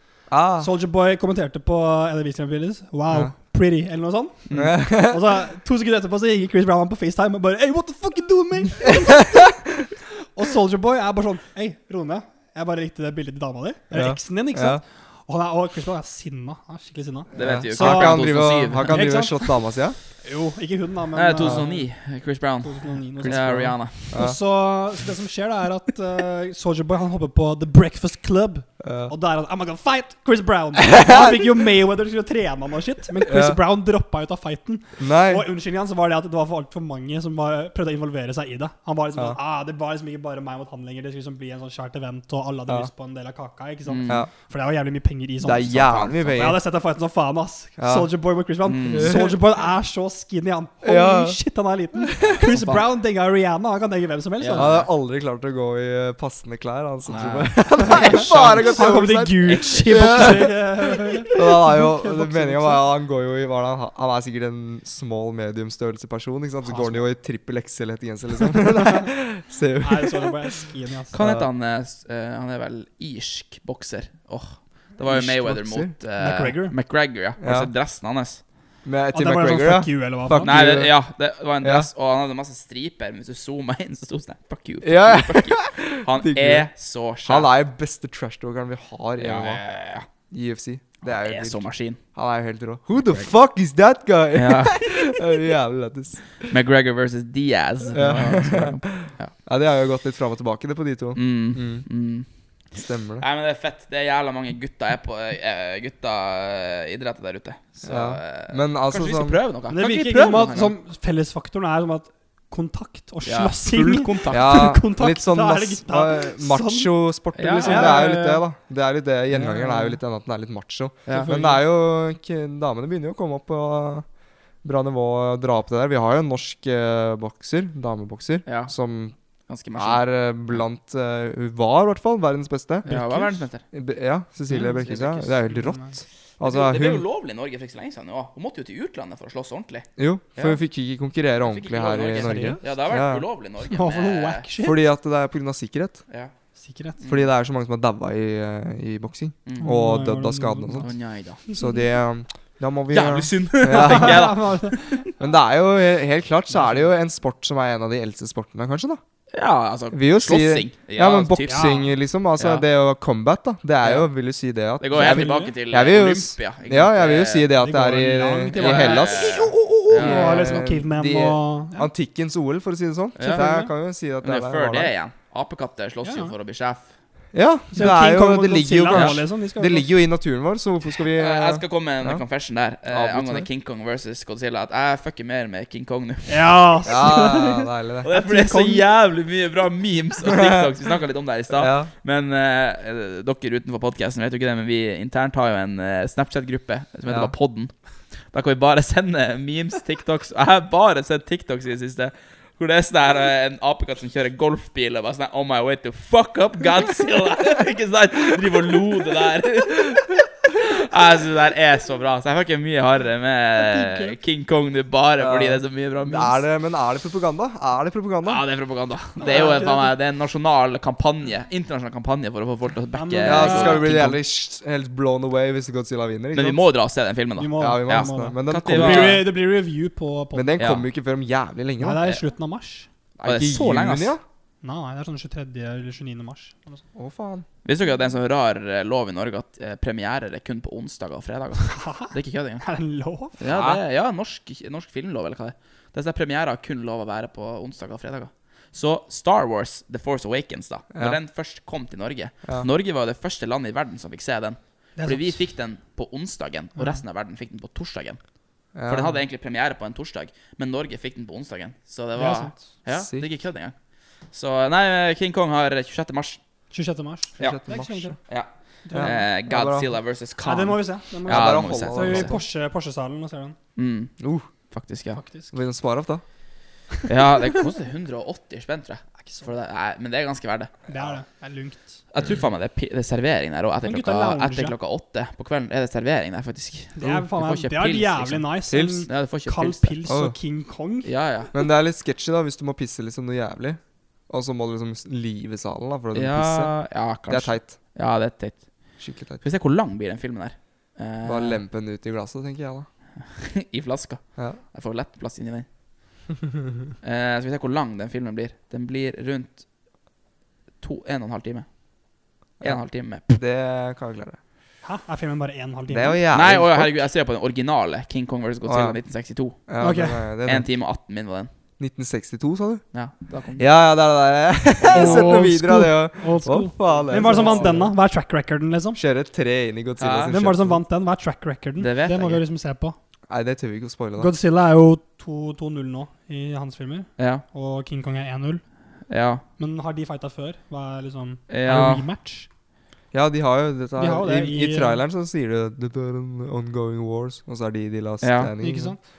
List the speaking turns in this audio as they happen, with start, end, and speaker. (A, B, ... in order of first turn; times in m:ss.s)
0:00.3-0:00.7 A
0:00.6-0:09.5 B
0:04.5-0:04.8 C
0:04.6-0:05.2 A
0:10.3-0:18.3 B
0:13.9-0:14.8 A
0:17.3-0:20.0 A
0:17.4-0:19.1 C
0:18.8-0:19.6 B
0:20.2-0:21.9 B
0:21.1-0:24.2 C
0:22.6-0:54.7 B
0:23.2-0:24.4 A
0:28.8-0:29.1 A
0:30.9-0:31.3 A
0:33.2-0:33.6 A
0:35.0-0:35.4 A
0:43.8-0:44.2 C
0:45.4-0:46.6 A
0:45.7-0:46.5 C
0:47.8-0:48.1 A
0:48.6-0:49.2 C
0:48.8-0:49.4 A
0:50.8-0:51.4 A
0:52.2-0:52.4 A
0:52.3-0:52.8 C
0:54.4-0:54.9 C
0:54.5-1:10.6 A
0:57.0-1:01.4 C
0:57.7-1:02.8 B
1:06.6-1:07.0 B
1:08.8-1:09.0 B
1:09.8-1:11.2 B
1:11.1-1:18.4 C
1:11.1-1:11.5 A
1:15.0-1:15.9 A
1:16.2-1:16.7 B
1:17.4-1:17.7 A
1:18.8-1:20.9 A
1:19.1-1:20.6 B
1:20.4-1:27.5 C
1:21.6-1:21.9 A
1:24.8-1:26.7 A
1:27.2-1:29.6 A
1:29.2-1:30.0 C
1:30.3-1:36.5 A
1:31.0-1:32.0 C
1:34.3-1:35.1 C
1:36.5-1:39.3 C
1:37.9-1:41.8 A
1:41.2-1:42.2 C
1:42.7-1:43.2 A
1:43.2-1:50.7 C
1:47.8-1:49.4 A
1:49.7-1:56.9 B
1:53.2-1:54.7 C
1:54.3-2:04.0 A
1:57.3-1:58.4 C
1:57.6-1:58.0 B
1:59.3-2:00.0 B
2:01.1-2:01.3 C
2:01.1-2:01.6 B
2:04.6-2:09.1 A
2:08.4-2:08.7 C
2:09.5-2:10.0 C
2:09.7-2:17.0 A
2:12.8-2:13.3 B
2:12.9-2:13.6 C
2:14.5-2:15.4 C
2:15.5-2:15.9 B
2:16.4-2:20.6 C
2:20.0-2:23.3 A
2:21.4-2:24.4 C
2:22.2-2:22.6 B
2:23.6-2:24.8 B
2:24.6-2:26.0 A
2:26.6-2:27.0 B
2:27.0-2:27.2 C
2:27.0-2:30.9 A
2:29.4-2:29.7 C
2:29.6-2:30.9 B
2:30.8-2:31.4 C
2:31.5-2:34.3 A
2:32.9-2:35.1 C
2:33.7-2:35.1 B
2:35.2-2:39.0 A
2:36.5-2:36.8 B
2:39.3-2:41.8 C
2:39.9-2:54.9 A
2:41.4-2:41.9 B
2:42.4-2:42.6 C
2:43.8-2:44.1 C
2:44.8-2:47.5 C
2:44.9-2:45.5 B
2:47.6-2:51.9 B
2:48.6-2:50.6 C
2:53.2-2:53.5 C
2:53.2-2:53.7 B
2:54.2-2:56.8 C
2:56.0-2:56.3 B
2:57.3-3:02.2 A
2:57.7-2:59.9 B
2:58.9-2:59.2 C
3:01.1-3:06.6 C
3:02.9-3:03.5 A
3:06.3-3:08.8 B
3:06.8-3:08.1 A
3:08.0-3:17.8 C
3:10.2-3:10.7 A
3:11.5-3:11.9 A
3:17.1-3:17.3 A
3:18.3-3:36.4 C
3:33.6-3:34.2 B
3:35.2-3:38.4 A
3:38.2-3:44.2 C
3:39.2-3:39.9 B
3:42.9-3:43.8 B
3:43.2-3:46.6 A
3:46.3-3:49.3 C
3:47.4-3:50.5 B
3:47.6-3:49.2 A
3:50.3-3:52.0 A
3:50.6-3:50.8 C
3:51.8-3:52.9 B
3:53.2-3:54.1 C
3:53.2-3:54.2 A
3:54.6-3:56.8 B
3:56.9-3:57.4 A
3:57.6-4:02.6 C
4:01.6-4:03.4 B
4:03.4-4:18.2 C
4:03.4-4:03.8 A
4:10.9-4:11.2 A
4:15.0-4:15.4 B
4:16.8-4:17.0 B
4:18.7-4:19.2 A
4:18.8-4:23.7 C
4:22.2-4:22.7 B
4:22.9-4:23.3 A
4:24.3-4:26.4 C
4:26.7-4:28.2 B
4:27.4-4:28.2 A
4:28.3-4:32.4 C
4:28.8-4:29.2 B
4:28.9-4:29.8 A
4:30.4-4:33.6 B
4:31.3-4:32.4 A
4:33.8-4:34.1 C
4:34.2-4:34.5 A
4:34.7-4:35.2 C
4:35.1-4:35.5 B
4:35.5-4:36.2 A
4:37.1-4:40.7 C
4:39.2-4:39.5 B
4:40.9-4:42.0 B
4:42.1-4:48.5 C
4:43.8-4:44.7 B
4:47.0-4:51.1 B
4:48.7-4:49.1 A
4:49.1-4:50.0 C
4:50.1-4:50.4 A
4:51.0-4:51.5 C
4:51.5-4:56.8 A
4:56.1-4:58.7 C
4:57.3-4:57.7 A
4:59.0-4:59.4 A
4:59.4-5:01.6 C
5:01.2-5:02.9 A
5:03.2-5:05.6 C
5:07.0-5:09.6 C
5:10.8-5:11.6 C
5:12.6-5:13.4 C
5:12.6-5:14.4 A
5:14.8-5:16.2 B
5:15.9-5:17.0 A
5:16.3-5:19.6 C
5:18.6-5:19.0 A
5:19.7-5:20.7 A
5:19.8-5:20.2 B
5:20.4-5:21.5 C
5:21.8-5:22.8 A
5:22.9-5:23.6 C
5:23.6-5:27.9 A
5:24.8-5:25.3 C
5:24.9-5:29.0 B
5:26.9-5:27.8 C
5:29.0-5:30.8 A
5:30.0-5:30.3 C
5:30.3-5:33.0 B
5:31.8-5:32.4 C
5:33.3-5:34.3 A
5:34.2-5:38.6 B
5:37.2-5:37.4 C
5:39.1-5:39.4 C
5:39.6-5:42.5 B
5:41.5-5:42.0 C
5:43.1-5:49.0 A
5:44.0-5:45.0 B
5:48.2-5:48.5 C
5:48.6-5:49.0 B